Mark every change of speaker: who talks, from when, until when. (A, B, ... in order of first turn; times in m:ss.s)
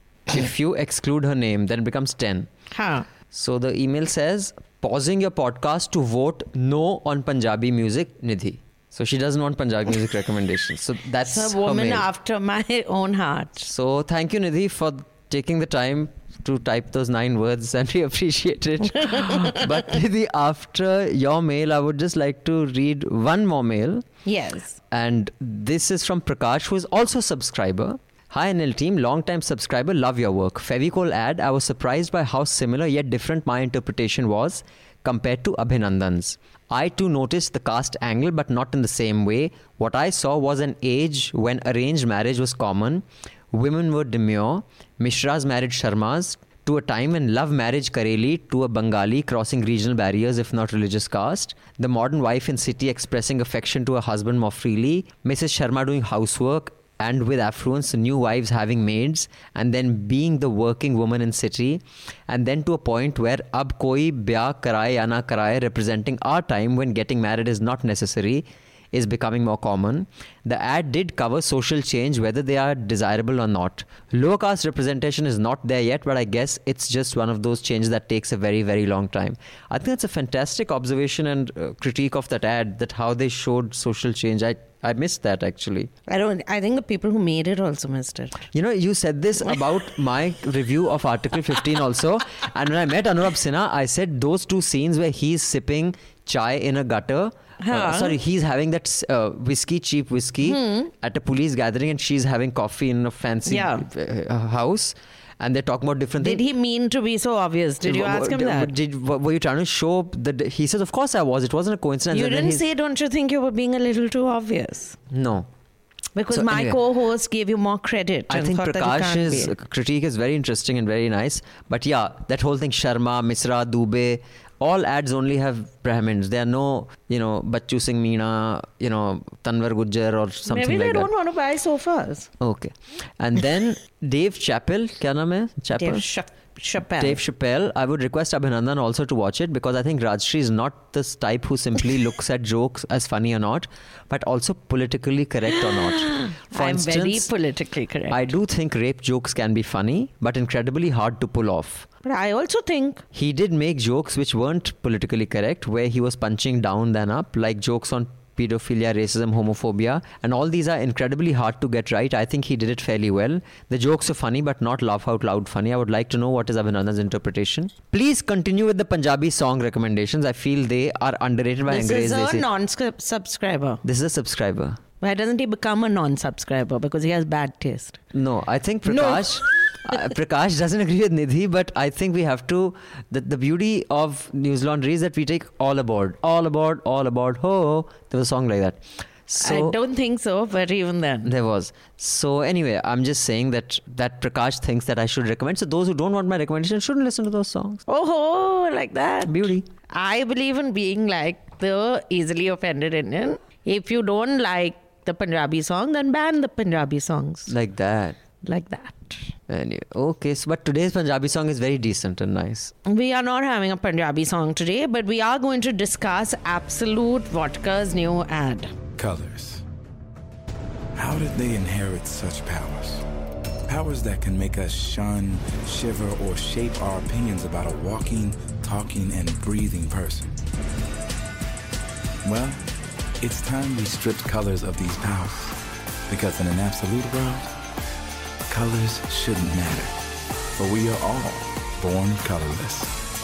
0:00.3-0:02.5 A
0:02.7-0:03.1 B
0:03.3-0:12.1 A
0:11.2-0:13.7 B
0:13.7-0:24.1 A
0:19.0-0:19.7 B
0:24.2-0:24.8 B
0:24.9-1:25.9 A
1:26.1-1:28.4 B
1:28.5-1:46.4 A
1:37.6-1:38.2 B
1:40.4-1:40.9 B
1:43.5-1:43.8 B
1:46.2-1:48.7 B
1:47.8-1:52.6 A
1:52.1-1:55.0 B
1:55.1-1:55.5 A
1:56.2-1:59.5 B
1:56.3-1:56.8 A
1:58.3-2:11.1 A
2:10.5-2:12.3 B
2:12.4-2:16.1 A
2:15.8-2:17.2 B
2:17.0-2:27.3 A
2:25.6-2:28.3 B
2:28.1-2:31.9 A
2:32.0-2:33.0 B
2:33.1-2:52.5 A
2:51.7-2:53.8 B
2:53.8-2:54.8 A
2:55.0-2:58.0 B
2:58.1-3:09.8 A
2:58.9-2:59.3 B
3:09.4-3:11.3 B
3:11.2-3:17.8 A
3:17.9-3:27.5 B
3:19.2-3:19.7 A
3:27.5-3:28.2 A
3:28.4-3:29.3 B
3:29.5-3:32.7 A
3:32.9-3:38.7 B
3:39.0-3:39.6 C
3:41.0-3:43.0 C
3:43.7-3:50.3 C
3:52.2-3:52.6 C
3:53.2-3:55.6 C
3:56.1-3:57.5 C
3:58.5-4:00.0 C
4:00.6-4:02.9 C